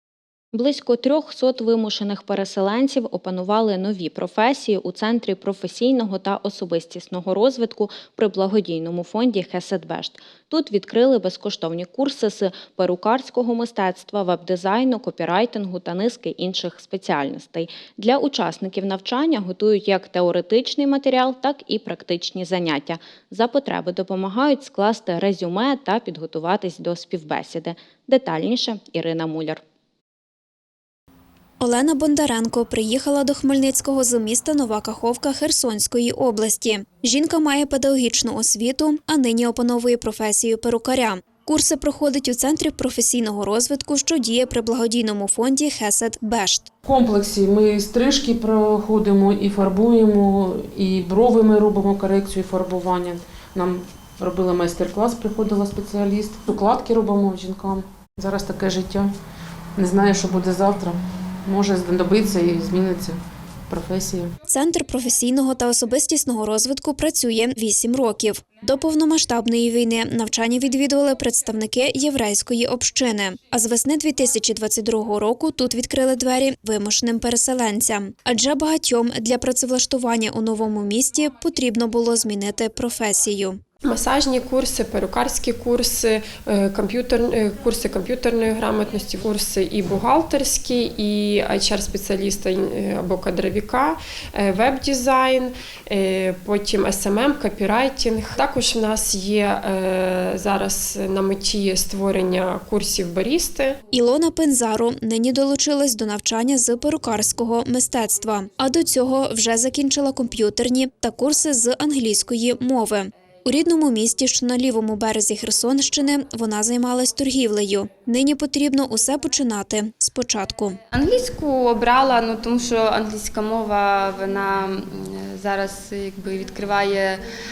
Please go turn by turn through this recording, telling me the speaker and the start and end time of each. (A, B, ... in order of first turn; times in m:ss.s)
0:00.5-0:29.6 A
0:31.6-0:46.7 B
0:46.8-0:59.1 C
0:59.8-1:03.2 C
1:03.7-1:04.3 C
1:04.5-1:23.6 B
1:23.8-1:43.8 D
1:43.9-2:00.8 B
2:00.9-2:07.2 E